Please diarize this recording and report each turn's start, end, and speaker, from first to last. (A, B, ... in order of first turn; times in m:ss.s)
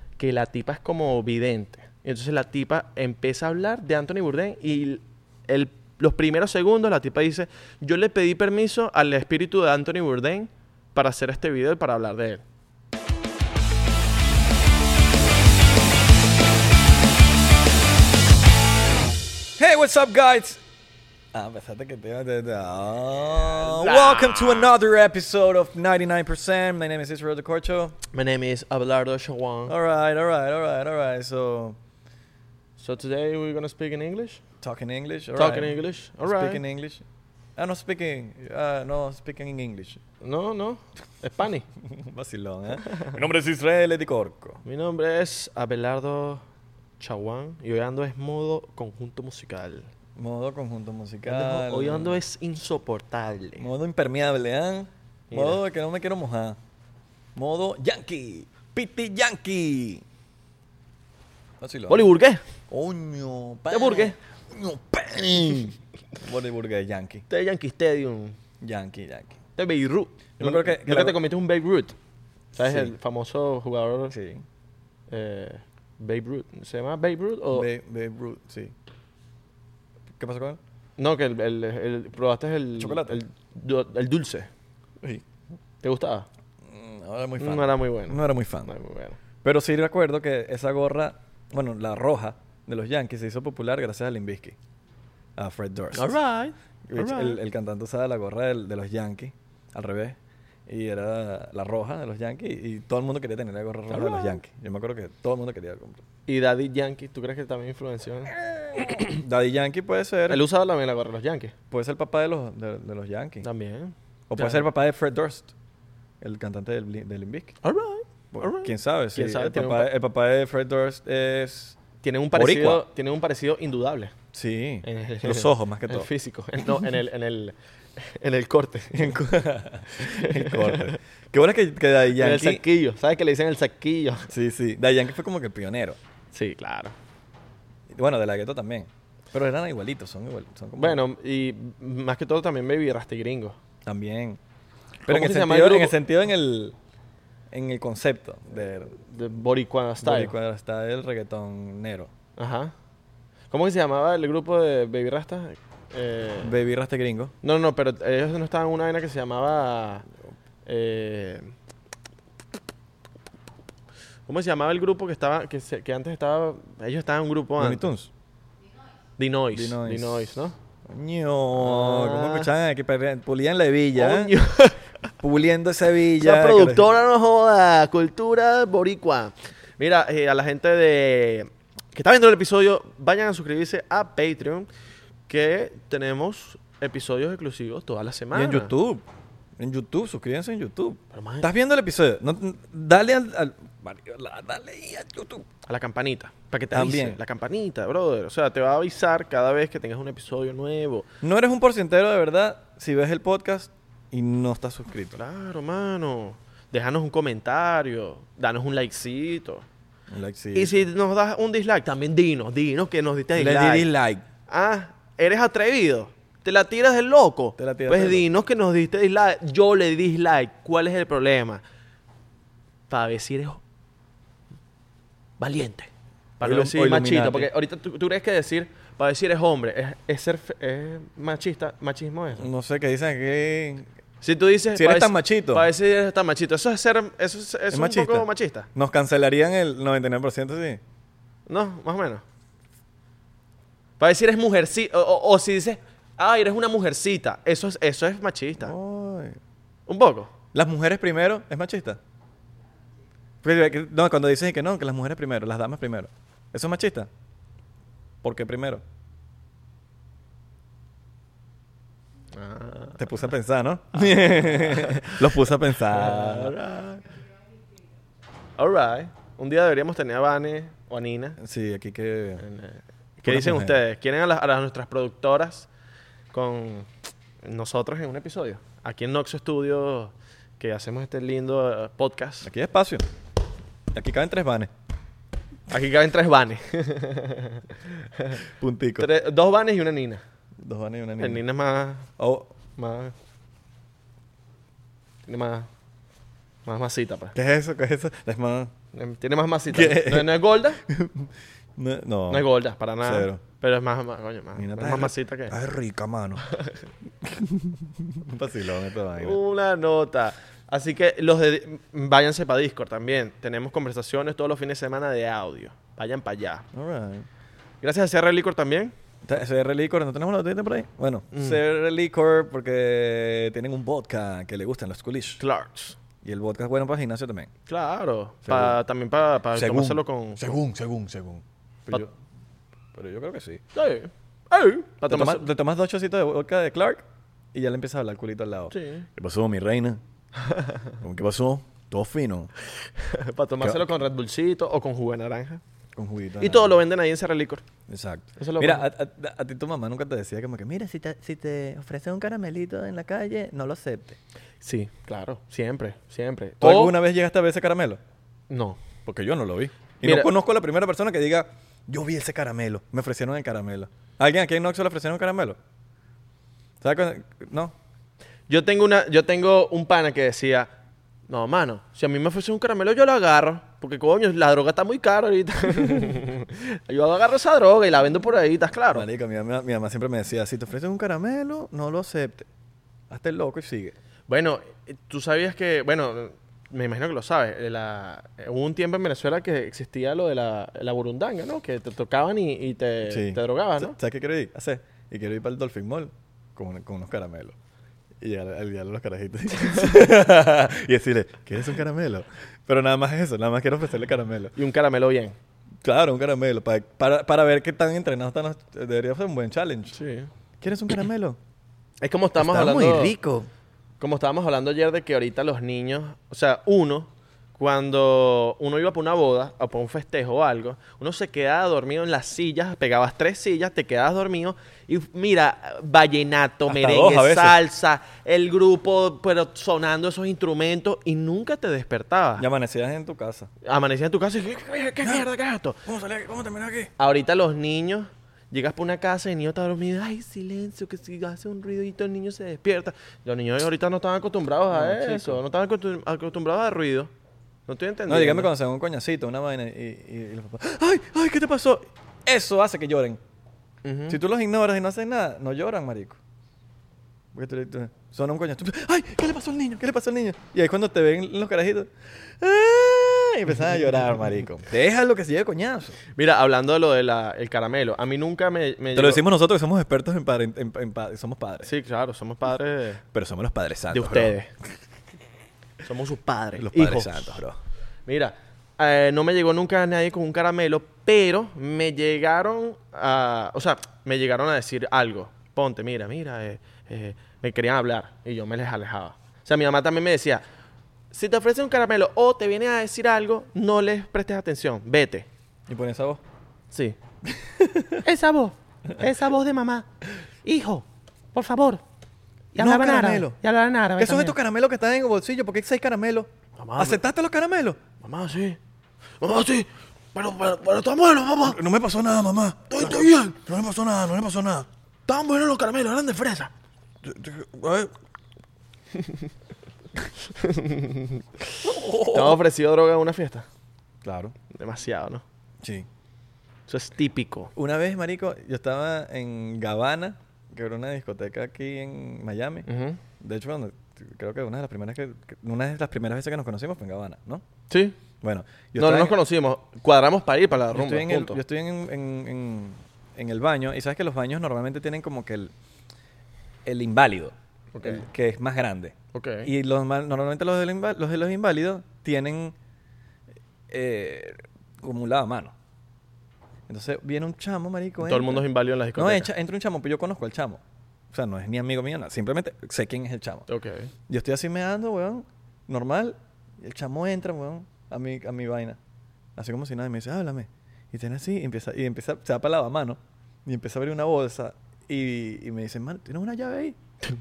0:00.2-0:12.4 A
0:19.6-0:20.6 B
0:21.3-0:28.0 B
0:23.5-0:24.7 A
0:28.1-0:29.8 A
0:29.7-0:31.8 B
0:32.8-0:34.4 A
0:34.6-0:37.0 B
0:35.3-0:36.6 A
0:37.6-0:40.0 B
0:40.2-0:41.6 A
0:41.8-0:44.6 B
0:42.8-0:43.2 A
0:44.6-0:46.4 A
0:47.0-0:49.9 A
0:50.2-0:52.2 B
0:51.2-0:53.7 A
0:53.6-0:56.6 B
0:55.3-0:55.6 A
0:57.3-1:00.0 B
1:01.6-1:02.1 B
1:01.9-1:02.4 A
1:02.7-1:07.2 B
1:03.7-1:04.2 A
1:07.3-1:08.4 A
1:08.6-1:09.4 B
1:09.6-1:11.9 A
1:10.4-1:11.2 B
1:12.5-1:14.1 A
1:12.6-1:12.9 B
1:14.1-1:14.4 B
1:15.1-1:17.7 A
1:17.5-1:18.7 B
1:20.2-1:20.6 B
1:21.0-1:24.5 A
1:22.8-1:23.2 B
1:25.8-1:26.3 A
1:26.6-1:28.7 B
1:27.4-1:29.2 A
1:29.4-1:34.6 B
1:35.4-1:36.2 B
1:35.9-1:37.4 A
1:36.9-1:46.0 B
1:43.9-1:44.4 A
1:46.3-1:49.1 A
1:48.9-1:50.4 B
1:50.3-1:51.5 A
1:51.7-1:53.5 B
1:53.4-1:54.7 A
1:54.3-1:55.5 B
1:56.2-1:57.6 B
1:57.6-1:59.9 A
1:58.3-2:01.8 B
2:02.0-2:04.1 A
2:02.3-2:02.8 B
2:04.3-2:06.1 B
2:04.8-2:09.2 A
2:08.9-2:12.6 B
2:09.9-2:11.0 A
2:12.2-2:14.3 A
2:14.3-2:16.0 B
2:16.3-2:16.9 A
2:17.9-2:21.0 B
2:20.8-2:23.6 A
2:23.8-2:24.4 B
2:25.0-2:26.7 B
2:25.1-2:26.0 A
2:27.5-2:29.0 B
2:29.0-2:30.3 A
2:30.0-2:32.1 B
2:32.4-2:32.7 A
2:33.5-2:36.5 A
2:36.4-2:37.3 B
2:37.4-2:40.0 A
2:40.6-2:41.5 A
2:44.3-2:47.9 A
2:47.6-2:48.1 B
2:49.2-2:50.6 A
2:49.5-2:54.3 B
2:51.6-2:52.5 A
2:54.0-2:54.8 A
2:55.2-2:56.9 B
2:56.2-3:04.7 A
3:05.3-3:08.7 A
3:08.3-3:09.0 B
3:09.6-3:15.4 B
3:11.1-3:11.5 A
3:15.7-3:21.1 A
3:16.7-3:17.2 B
3:21.2-3:25.2 B
3:25.1-3:29.6 A
3:30.1-3:30.9 B
3:30.5-3:33.9 A
3:33.3-3:34.2 B
3:34.5-3:41.6 A
3:37.6-3:38.3 B
3:42.9-3:43.6 A
3:45.4-3:52.5 A
3:46.4-3:47.5 B
3:52.4-3:53.9 B
3:54.2-3:58.7 A
3:54.7-3:55.7 B
3:57.7-4:00.8 B
4:01.5-4:02.2 A
4:04.0-4:08.7 A
4:08.6-4:09.4 B
4:09.9-4:10.3 A
4:10.5-4:12.0 B
4:13.4-4:17.1 B
4:18.2-4:18.8 B
4:22.3-4:23.3 A
4:23.0-4:26.6 B
4:23.9-4:27.1 A
4:28.6-4:31.4 A
4:31.4-4:32.4 B
4:32.4-4:35.7 A
4:33.2-4:33.8 B
4:36.3-4:36.9 A
4:37.4-4:42.5 A
4:42.4-4:43.0 B
4:43.9-4:44.7 B
4:45.7-4:47.6 A
4:48.6-4:49.1 B
4:49.0-4:50.2 A
4:50.6-4:51.4 B
4:51.2-4:52.1 A
4:52.2-4:52.5 B
4:52.8-4:53.1 A
4:55.3-4:55.7 A
4:56.6-4:57.4 A
4:57.3-4:58.7 B
4:58.9-5:00.8 A
4:59.7-5:02.5 B
5:02.3-5:05.6 A
5:03.0-5:03.4 B
5:04.6-5:06.4 B
5:06.5-5:06.8 A
5:07.2-5:09.4 B
5:09.2-5:16.6 A
5:16.7-5:17.3 B
5:17.8-5:18.9 A
5:19.2-5:25.4 B
5:21.3-5:21.6 A
5:25.4-5:26.0 A
5:26.2-5:27.5 B
5:27.7-5:30.6 A
5:28.4-5:28.8 B
5:29.5-5:32.1 B
5:32.9-5:33.6 B
5:33.7-5:35.5 A
5:35.1-5:40.0 B
5:38.7-5:39.0 A
5:40.4-5:40.8 A
5:41.0-5:42.5 B
5:43.0-5:45.6 A
5:43.6-5:43.8 B
5:46.0-5:46.8 B
5:46.4-5:47.6 A
5:47.9-5:54.2 B
5:48.4-5:48.8 A
5:54.6-5:57.0 A
5:56.6-5:58.0 B
5:58.5-5:58.8 A
5:59.0-6:05.6 B
6:00.0-6:00.3 A
6:06.8-6:07.7 B
6:08.5-6:10.7 A
6:11.3-6:19.1 A
6:18.9-6:22.4 B
6:23.1-6:23.9 B
6:24.3-6:34.0 A
6:33.0-6:37.6 B
6:38.2-6:44.5 B
6:44.5-6:45.4 A
6:45.8-6:50.0 B
6:49.9-6:50.3 A
6:50.6-6:51.4 B
6:52.0-6:53.1 A
6:52.4-6:53.5 B
6:54.0-7:12.4 A
7:06.7-7:07.6 B
7:12.4-7:13.5 B
7:13.6-7:15.8 A
7:15.0-7:15.3 B
7:15.8-7:16.9 B
7:17.0-7:27.1 A
7:24.7-7:25.4 B
7:27.7-7:28.5 A
7:28.1-7:33.2 B
7:33.8-7:34.2 A
7:34.1-7:36.2 B
7:37.3-7:46.0 B
7:46.2-7:49.2 A
7:48.9-7:51.7 B
7:51.6-7:53.0 A
7:53.1-7:54.4 B
7:53.9-7:54.5 A
7:55.8-7:57.4 A
7:56.6-7:57.6 B
7:58.1-8:10.4 A
8:11.1-8:15.3 A
8:15.7-8:16.2 B
8:16.7-8:17.0 A
8:17.3-8:18.0 B
8:18.0-8:19.9 A
8:20.4-8:21.8 A
8:22.5-8:24.4 A
8:22.6-8:23.4 B
8:24.0-8:27.8 B
8:26.6-8:27.0 A
8:28.0-8:28.6 A
8:29.2-8:31.6 A
8:31.4-8:34.7 B
8:32.7-8:33.3 A
8:35.1-8:36.5 A
8:37.0-8:37.9 B
8:40.4-8:43.4 A
8:41.6-8:42.4 B
8:44.0-8:44.3 B
8:44.5-8:45.2 A
8:45.6-8:45.9 B
8:46.7-8:47.5 A
8:47.5-8:52.7 B
8:52.6-8:53.0 A
8:53.2-8:57.4 B
8:57.7-8:58.0 A
8:58.2-8:59.1 B
8:58.8-9:01.4 A
9:00.7-9:05.5 B
9:06.6-9:12.5 B
9:07.7-9:08.0 A
9:09.1-9:09.5 A
9:13.7-9:15.5 B
9:16.7-9:18.4 B
9:18.0-9:19.3 A
9:19.0-9:23.4 B
9:23.5-9:23.9 A
9:24.1-9:28.8 B
9:29.4-9:36.8 B